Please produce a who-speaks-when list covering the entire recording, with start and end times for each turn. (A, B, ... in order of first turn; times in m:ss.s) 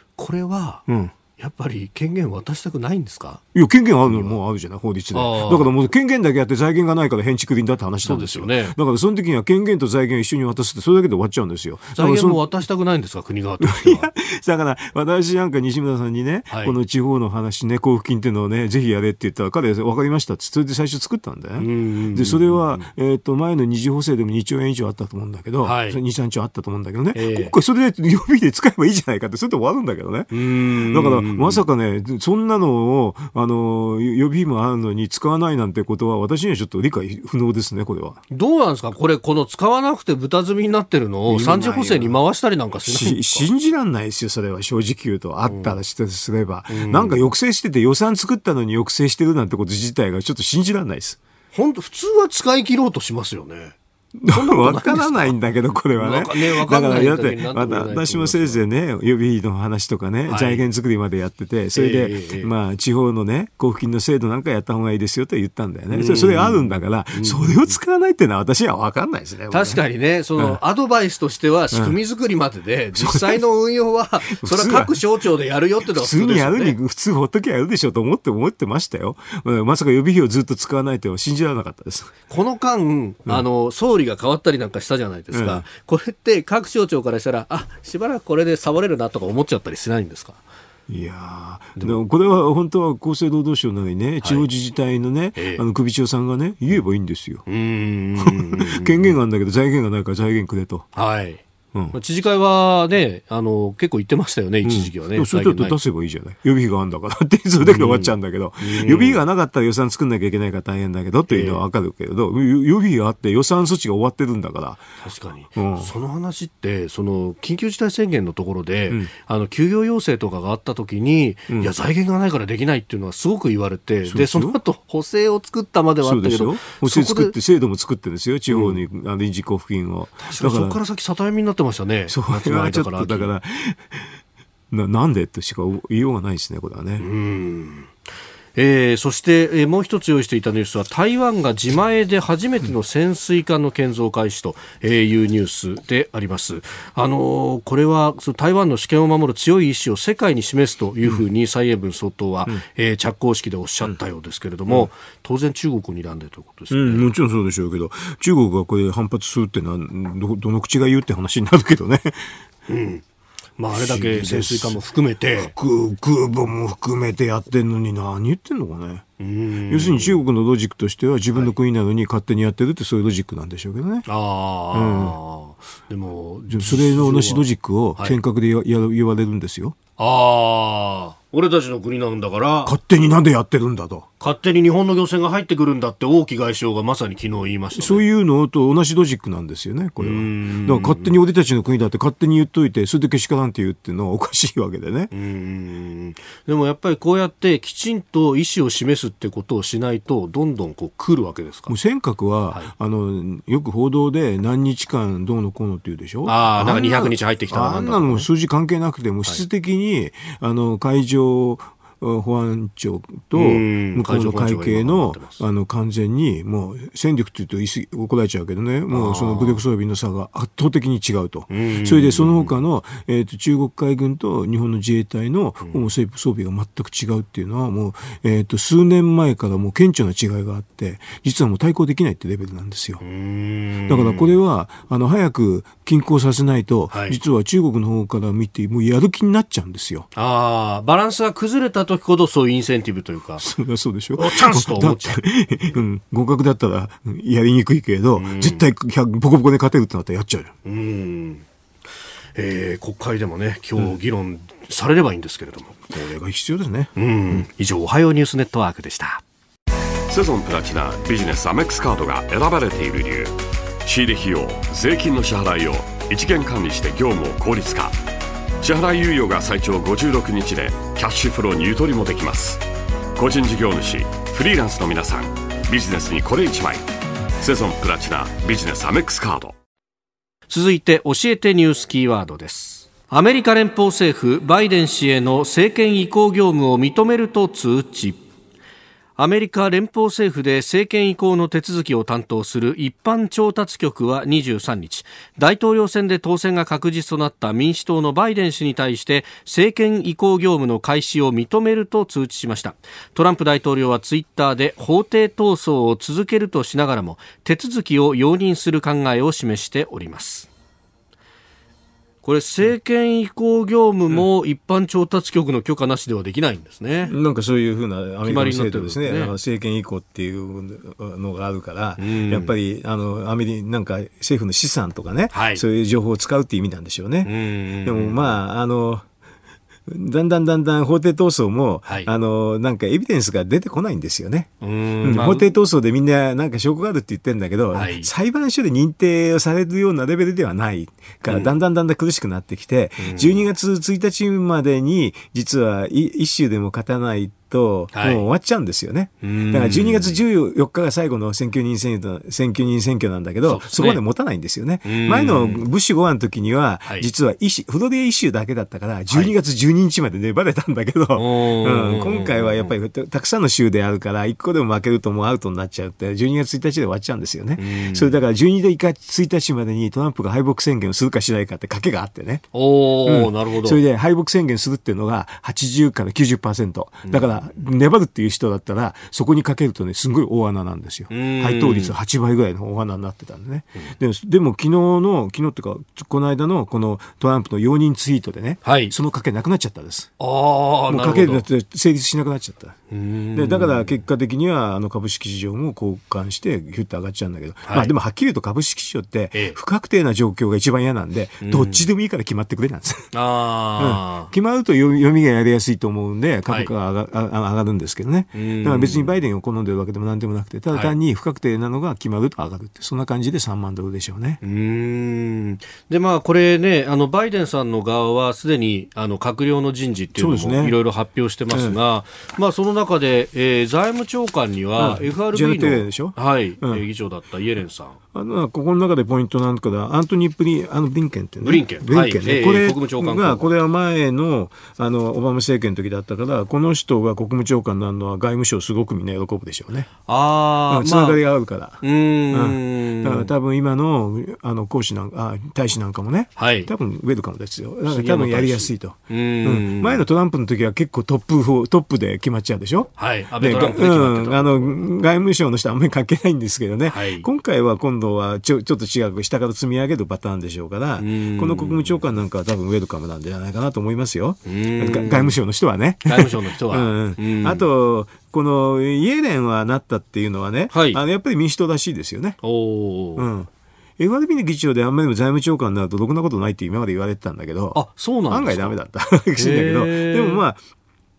0:00.2-0:03.4 A
0:00.9-0:01.1 B
0:03.5-0:12.6 B
0:04.0-0:04.4 A
0:05.1-0:05.7 A
0:08.0-0:08.8 A
0:12.0-0:14.1 A
0:13.6-0:38.2 B
0:16.5-0:16.8 A
0:21.6-0:22.9 A
0:25.6-0:26.0 A
0:27.1-0:27.5 A
0:30.3-0:31.6 A
0:38.3-0:43.5 A
0:41.3-0:42.2 B
0:42.8-0:51.2 B
0:45.4-0:45.7 A
0:46.7-0:47.3 A
0:51.5-0:53.8 A
0:54.2-1:09.8 B
0:54.3-0:55.4 A
0:55.9-0:58.6 A
1:00.2-1:00.6 A
1:01.7-1:02.5 A
1:05.9-1:07.7 A
1:09.5-1:16.8 A
1:13.0-1:13.4 B
1:14.3-1:15.0 B
1:15.8-1:22.1 B
1:22.3-1:30.4 A
1:25.3-1:25.6 B
1:30.9-1:37.4 B
1:31.8-1:32.0 A
1:34.2-1:34.5 A
1:35.4-1:35.6 A
1:37.4-1:39.2 A
1:38.2-1:40.9 B
1:40.9-1:45.8 A
1:44.6-1:54.8 B
1:47.6-1:49.2 A
1:51.3-1:51.6 A
1:55.0-2:07.4 A
1:55.5-1:55.9 B
2:04.0-2:04.6 B
2:06.0-2:10.8 B
2:08.5-2:08.8 A
2:10.2-2:13.3 A
2:12.1-2:14.1 B
2:14.7-2:17.0 B
2:17.0-2:17.9 A
2:18.5-2:37.1 A
2:36.7-2:42.3 B
2:42.7-2:43.0 A
2:43.6-2:45.5 A
2:43.7-2:44.8 B
2:45.3-2:49.0 B
2:49.2-2:50.2 A
2:49.7-2:54.0 B
2:54.0-2:58.2 A
2:54.7-2:55.2 B
2:56.5-2:59.8 B
3:00.0-3:02.8 A
3:02.6-3:04.1 B
3:04.2-3:08.0 A
3:07.7-3:15.1 B
3:10.0-3:11.1 A
3:15.1-3:21.7 A
3:21.7-3:53.0 B
3:26.2-3:28.3 A
3:33.3-3:35.4 A
3:38.9-3:39.6 A
3:41.5-3:42.5 A
3:53.0-3:54.4 A
3:53.9-4:00.1 B
3:56.9-3:57.2 A
4:00.1-4:03.4 A
4:03.4-4:10.5 B
4:04.2-4:05.2 A
4:08.2-4:08.7 A
4:10.6-4:11.4 A
4:12.4-4:15.8 A
4:15.9-4:17.4 B
4:17.0-4:19.2 A
4:20.1-4:28.0 C
4:28.6-4:32.6 C
4:33.2-4:36.8 C
4:37.4-4:39.5 C
4:40.5-4:48.2 A
4:49.2-5:10.5 A
5:12.2-5:17.1 A
5:17.1-5:29.0 B
5:18.2-5:19.4 A
5:22.0-5:22.5 A
5:25.3-5:25.6 A
5:27.2-5:28.4 A
5:29.9-5:34.5 B
5:34.6-5:35.5 A
5:35.0-6:12.5 B
5:37.7-5:38.1 A
5:43.0-5:43.4 A
5:47.9-5:48.2 A
5:49.2-5:50.2 A
5:53.4-5:54.0 A
5:54.8-5:55.6 A
6:01.1-6:02.7 A
6:07.6-6:08.1 A
6:12.5-6:13.8 A
6:13.0-6:30.1 B
6:17.0-6:17.4 A
6:21.1-6:22.0 A
6:28.6-6:28.9 A
6:30.2-6:31.4 A
6:30.9-6:32.8 B
6:32.9-6:34.0 A
6:33.3-6:43.1 B
6:37.6-6:37.9 A
6:41.4-6:41.8 A
6:43.1-6:44.3 A
6:43.8-6:54.4 B
6:48.3-6:49.2 A
6:54.4-7:08.0 A
7:00.1-7:00.8 B
7:01.5-7:01.8 B
7:04.8-7:06.8 B
7:08.1-7:19.9 B
7:11.4-7:13.5 A
7:20.1-7:21.2 A
7:20.7-7:52.4 B
7:21.8-7:23.3 A
7:26.4-7:26.7 A
7:27.9-7:30.0 A
7:33.0-7:34.9 A
7:36.8-7:37.3 A
7:41.0-7:42.0 A
7:44.4-7:45.4 A
7:46.0-7:47.6 A
7:50.7-7:51.0 A
7:52.4-7:53.3 A
7:53.2-8:00.6 B
7:57.7-7:58.7 A
7:59.3-8:00.4 A